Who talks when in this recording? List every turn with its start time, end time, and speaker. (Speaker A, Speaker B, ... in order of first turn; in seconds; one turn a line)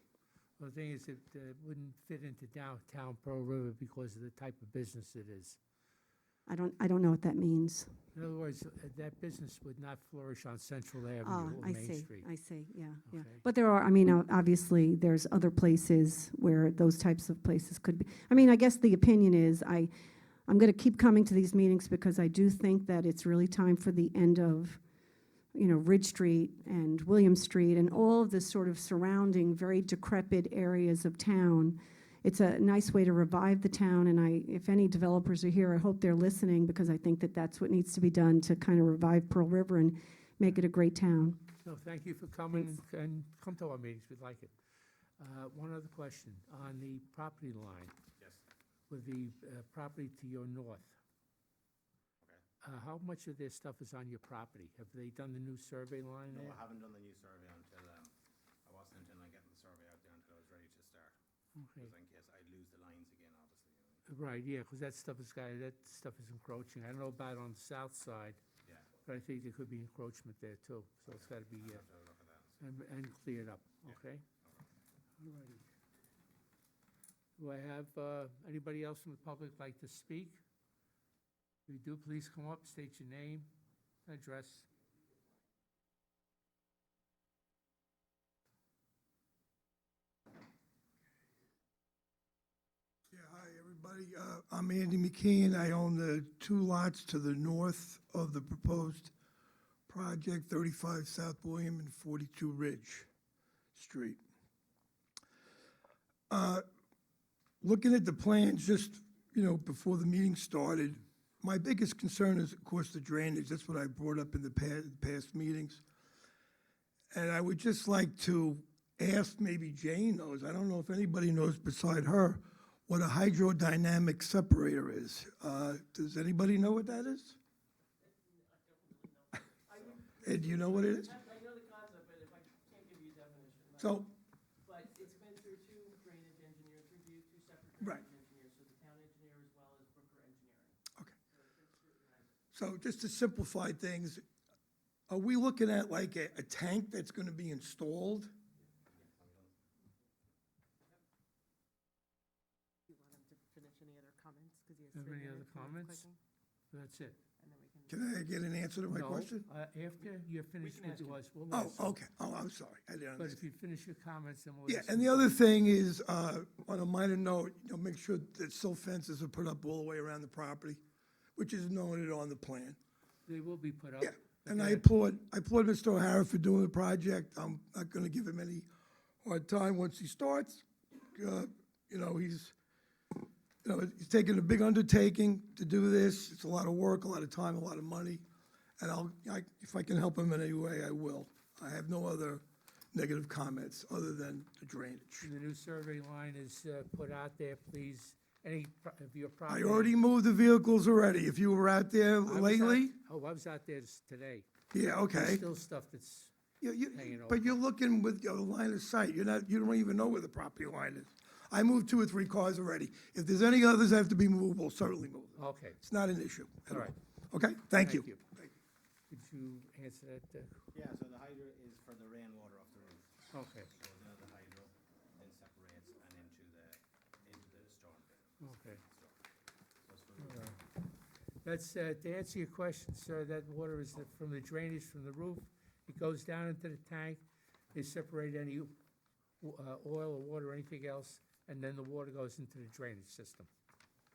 Speaker A: 0.6-5.6
Speaker B: 6.5-7.9
Speaker A: 8.1-12.2
Speaker B: 11.2-19.9
Speaker A: 13.1-13.4
Speaker B: 20.5-24.8
Speaker B: 25.5-41.4
Speaker A: 41.6-44.5
Speaker A: 45.2-47.9
Speaker C: 48.2-48.4
Speaker A: 48.9-51.0
Speaker A: 52.6-56.6
Speaker C: 56.3-58.1
Speaker C: 58.6-61.2
Speaker C: 61.7-64.0
Speaker A: 64.1-68.4
Speaker C: 68.6-68.9
Speaker A: 69.0-71.8
Speaker C: 71.0-72.6
Speaker A: 72.6-74.2
Speaker C: 73.8-74.7
Speaker A: 75.2-75.6
Speaker A: 77.4-80.4
Speaker A: 81.7-83.5
Speaker A: 84.0-84.7
Speaker D: 93.1-99.1
Speaker D: 99.9-103.1
Speaker D: 103.7-104.2
Speaker D: 106.3-106.6
Speaker D: 107.6-115.8
Speaker D: 117.1-127.4
Speaker E: 128.0-134.1
Speaker D: 130.2-131.2
Speaker D: 133.8-134.1
Speaker E: 134.7-142.4
Speaker D: 142.5-144.2
Speaker D: 145.1-148.3
Speaker C: 148.9-149.6
Speaker E: 152.9-156.2
Speaker A: 154.9-156.0
Speaker A: 156.7-157.2
Speaker E: 157.4-158.4
Speaker D: 157.9-159.5
Speaker A: 158.9-162.0
Speaker E: 160.0-161.2
Speaker D: 161.5-163.4
Speaker A: 163.2-165.3
Speaker D: 164.7-170.8
Speaker D: 171.4-172.8
Speaker A: 173.3-174.8
Speaker D: 174.0-178.7
Speaker D: 179.2-182.5
Speaker D: 183.6-188.2
Speaker D: 188.8-195.3
Speaker A: 195.2-199.9
Speaker D: 199.5-203.0
Speaker A: 202.3-204.5
Speaker D: 204.7-205.5
Speaker A: 205.2-206.3
Speaker D: 206.6-218.5
Speaker A: 206.9-207.6
Speaker A: 215.4-215.8
Speaker A: 217.8-218.2
Speaker A: 219.1-220.6
Speaker C: 220.7-223.1
Speaker A: 223.3-223.7
Speaker C: 223.6-229.2
Speaker A: 228.4-228.8
Speaker C: 229.8-230.6
Speaker A: 231.4-238.8
Speaker A: 239.4-243.5